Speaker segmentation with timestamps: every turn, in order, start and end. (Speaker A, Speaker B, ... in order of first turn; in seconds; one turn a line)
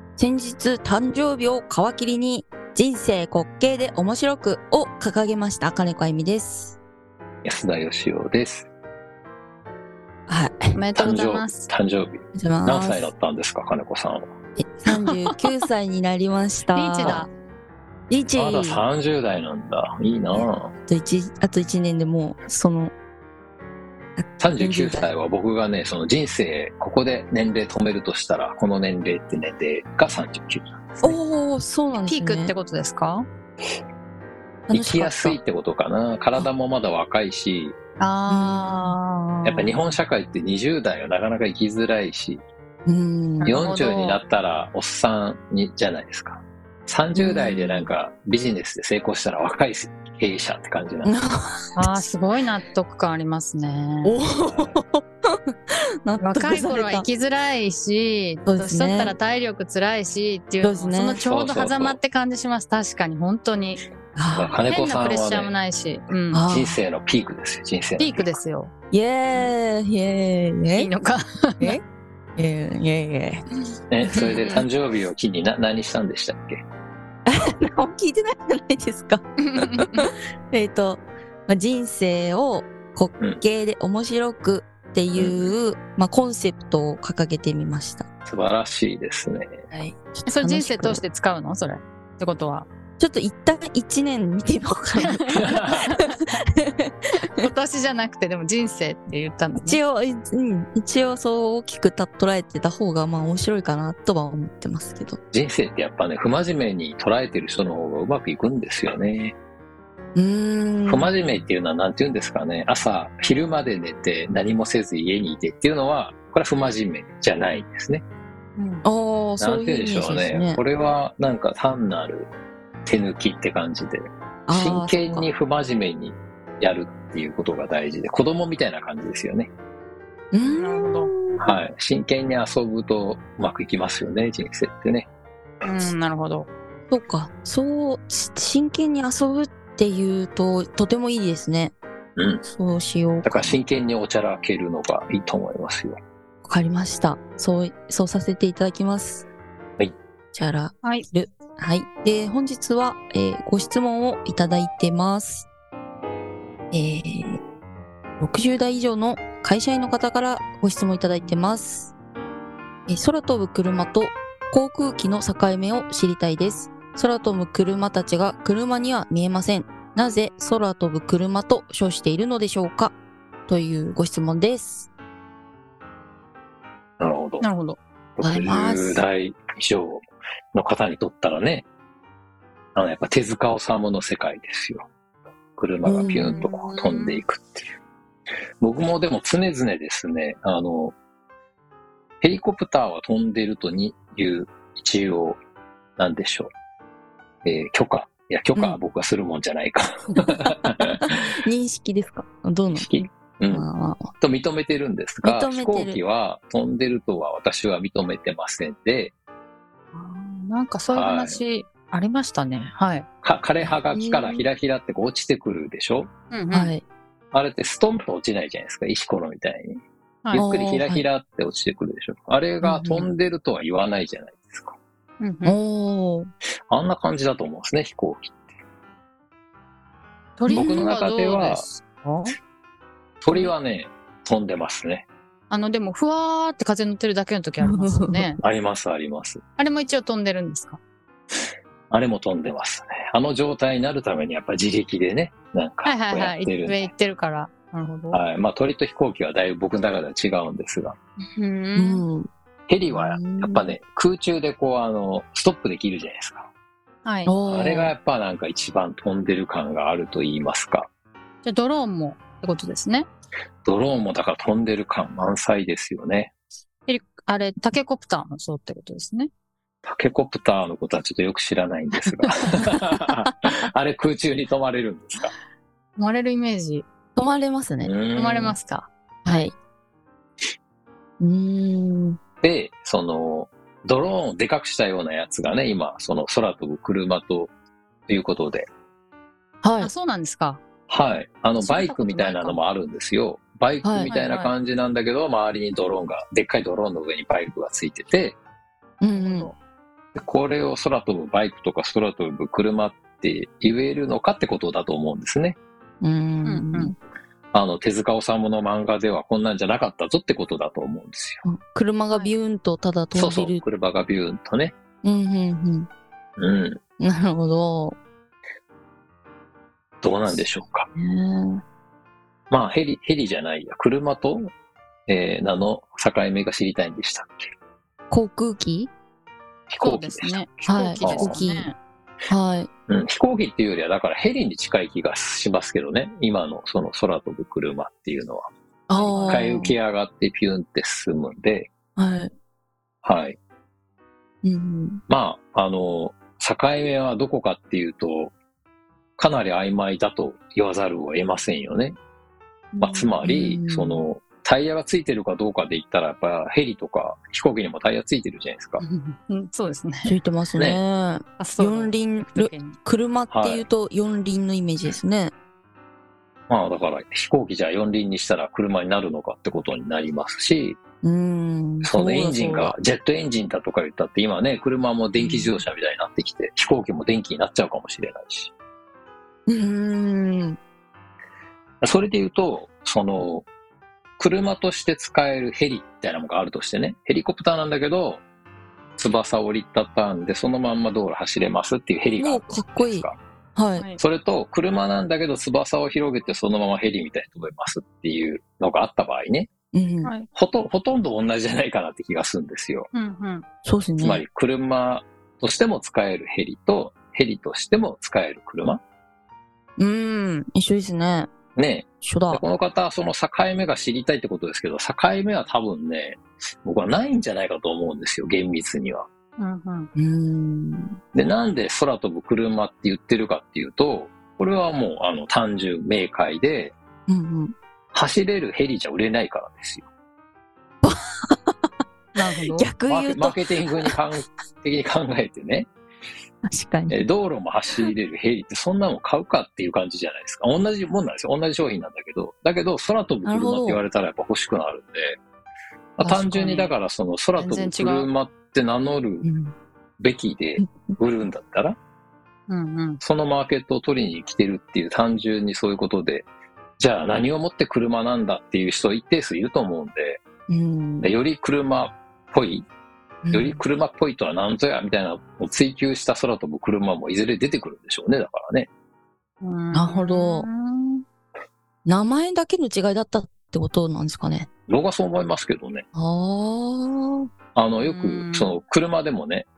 Speaker A: 0.2-6.8
Speaker B: 7.4-8.7
Speaker A: 10.3-10.8
Speaker C: 10.8-11.7
Speaker B: 10.9-14.3
Speaker A: 12.3-13.1
Speaker A: 14.6-17.3
Speaker C: 14.9-15.3
Speaker C: 16.8-17.3
Speaker A: 18.1-18.8
Speaker B: 18.4-20.7
Speaker A: 20.4-22.9
Speaker A: 24.2-25.1
Speaker B: 24.4-31.2
Speaker A: 31.0-32.5
Speaker C: 32.0-33.3
Speaker A: 34.7-35.4
Speaker B: 34.7-37.8
Speaker C: 38.0-40.0
Speaker A: 38.3-39.0
Speaker B: 39.4-42.4
Speaker A: 42.9-43.5
Speaker C: 43.4-44.2
Speaker B: 43.4-51.1
Speaker A: 47.2-47.9
Speaker A: 51.0-52.1
Speaker C: 51.8-54.1
Speaker A: 54.0-55.0
Speaker B: 54.3-54.8
Speaker A: 56.1-57.1
Speaker C: 56.2-63.8
Speaker A: 58.5-59.1
Speaker A: 60.6-61.2
Speaker B: 61.2-62.0
Speaker A: 64.2-64.6
Speaker B: 64.3-65.5
Speaker C: 64.7-66.4
Speaker A: 66.3-66.8
Speaker B: 66.5-68.3
Speaker C: 68.0-68.7
Speaker A: 68.9-70.9
Speaker C: 70.8-71.8
Speaker A: 72.4-73.4
Speaker B: 73.9-76.6
Speaker A: 74.0-74.6
Speaker A: 77.3-88.1
Speaker C: 79.5-79.9
Speaker B: 85.2-85.5
Speaker B: 88.2-89.7
Speaker A: 89.7-91.0
Speaker C: 90.3-92.7
Speaker A: 93.0-97.5
Speaker C: 95.0-96.1
Speaker C: 97.3-99.8
Speaker A: 99.6-105.2
Speaker B: 105.3-109.4
Speaker A: 110.2-111.1
Speaker B: 110.9-118.0
Speaker C: 118.6-118.8
Speaker A: 118.8-120.6
Speaker B: 119.4-122.3
Speaker B: 122.9-129.5
Speaker A: 124.5-125.3
Speaker A: 130.3-131.4
Speaker C: 130.4-131.1
Speaker B: 131.4-135.1
Speaker C: 135.6-136.5
Speaker A: 136.9-141.8
Speaker B: 142.2-142.4
Speaker A: 142.4-143.6
Speaker B: 143.2-146.0
Speaker A: 146.4-149.3
Speaker A: 150.3-155.5
Speaker A: 156.7-157.4
Speaker A: 158.2-161.9
Speaker A: 162.9-172.9
Speaker A: 173.5-174.9
Speaker B: 177.0-177.5
Speaker C: 177.4-177.8
Speaker B: 178.2-181.7
Speaker A: 178.2-179.0
Speaker B: 182.8-184.9
Speaker B: 185.6-187.7
Speaker A: 185.8-186.4
Speaker C: 186.2-187.2
Speaker B: 188.6-190.9
Speaker B: 192.2-195.4
Speaker B: 196.0-196.5
Speaker B: 197.4-200.9
Speaker A: 200.7-202.9
Speaker B: 202.7-203.7
Speaker A: 203.5-204.1
Speaker B: 204.2-209.1
Speaker A: 205.2-206.0
Speaker C: 209.9-213.1
Speaker B: 210.9-211.4
Speaker B: 213.2-216.1
Speaker A: 213.7-214.4
Speaker C: 216.3-216.7
Speaker A: 216.5-216.8
Speaker B: 217.3-219.8
Speaker B: 220.3-224.8
Speaker A: 220.3-221.0
Speaker A: 222.6-223.1
Speaker C: 225.2-225.6
Speaker A: 225.4-226.3
Speaker B: 226.7-228.5
Speaker C: 230.4-232.4
Speaker A: 230.5-230.9
Speaker B: 230.5-231.7
Speaker B: 233.2-235.1
Speaker C: 235.5-238.4
Speaker A: 237.6-238.3
Speaker B: 238.4-239.4
Speaker C: 239.6-240.8
Speaker B: 241.9-246.9
Speaker C: 245.8-248.2
Speaker B: 248.1-251.0
Speaker C: 251.2-252.0
Speaker A: 251.8-252.3
Speaker B: 252.7-256.5
Speaker A: 252.9-253.7
Speaker C: 257.1-257.3
Speaker A: 257.3-257.9
Speaker B: 257.5-260.9
Speaker C: 261.4-263.1
Speaker B: 263.6-266.3
Speaker C: 266.9-269.3
Speaker B: 269.9-275.3
Speaker C: 276.0-276.9
Speaker A: 277.2-277.9
Speaker B: 277.8-278.6
Speaker C: 278.1-279.4
Speaker A: 279.3-279.5
Speaker A: 281.2-282.2
Speaker B: 282.4-287.5
Speaker B: 288.1-288.7
Speaker A: 289.6-289.9
Speaker C: 289.8-290.6
Speaker B: 290.9-298.4
Speaker C: 291.6-292.6
Speaker A: 293.8-294.1
Speaker C: 294.1-294.5
Speaker A: 299.0-299.5
Speaker C: 299.1-299.6
Speaker B: 300.1-305.6
Speaker A: 306.0-307.0
Speaker C: 306.5-306.9
Speaker B: 307.5-311.4
Speaker A: 311.5-313.6
Speaker B: 313.1-314.8
Speaker A: 315.0-315.9
Speaker B: 316.4-316.8
Speaker A: 317.0-318.0
Speaker B: 320.0-320.9
Speaker A: 320.9-321.6
Speaker B: 322.5-324.5
Speaker B: 325.1-327.5
Speaker A: 328.1-328.9
Speaker B: 329.7-330.5
Speaker C: 329.8-331.8
Speaker A: 330.6-331.7
Speaker B: 331.0-331.4
Speaker A: 332.3-332.7
Speaker B: 332.9-338.5
Speaker A: 338.9-339.7
Speaker C: 338.9-339.4
Speaker B: 339.1-341.7
Speaker A: 342.0-342.3
Speaker B: 343.0-343.4
Speaker A: 344.4-345.0
Speaker B: 345.1-348.3
Speaker B: 349.2-352.0
Speaker C: 352.7-353.1
Speaker B: 352.8-358.8
Speaker A: 353.2-354.0
Speaker C: 358.8-360.1
Speaker A: 360.1-365.3
Speaker C: 361.4-362.8
Speaker B: 363.3-363.6
Speaker B: 366.5-370.8
Speaker A: 371.0-372.7
Speaker B: 371.8-378.5
Speaker A: 375.2-375.6
Speaker A: 379.5-380.6
Speaker B: 381.8-383.5
Speaker B: 384.2-388.2
Speaker B: 389.0-393.2
Speaker A: 392.2-393.9
Speaker B: 394.0-399.5
Speaker A: 399.7-400.1
Speaker B: 400.3-402.9
Speaker C: 402.9-403.4
Speaker A: 403.6-404.2
Speaker B: 404.0-408.8
Speaker A: 409.8-411.3
Speaker B: 411.6-419.1
Speaker A: 412.0-412.4
Speaker C: 419.4-419.9
Speaker A: 420.0-421.0
Speaker B: 421.1-426.8
Speaker A: 427.1-427.5
Speaker B: 427.9-429.9
Speaker A: 430.8-431.5
Speaker C: 432.1-432.7
Speaker A: 432.2-433.9
Speaker B: 432.9-435.7
Speaker A: 436.4-437.0
Speaker B: 436.9-445.2
Speaker A: 443.2-443.8
Speaker B: 446.0-449.3
Speaker A: 446.0-446.6
Speaker C: 446.4-446.7
Speaker C: 447.4-448.1
Speaker A: 449.2-449.5
Speaker B: 450.0-451.8
Speaker A: 450.6-451.0
Speaker C: 452.5-453.0
Speaker B: 453.0-456.3
Speaker B: 456.8-460.2
Speaker A: 460.5-461.1
Speaker B: 461.0-462.7
Speaker A: 463.2-463.6
Speaker B: 463.3-468.7
Speaker C: 469.4-471.1
Speaker A: 469.7-470.5
Speaker A: 471.9-474.5
Speaker B: 474.7-475.9
Speaker A: 475.9-477.3
Speaker B: 477.6-479.5
Speaker C: 477.8-478.6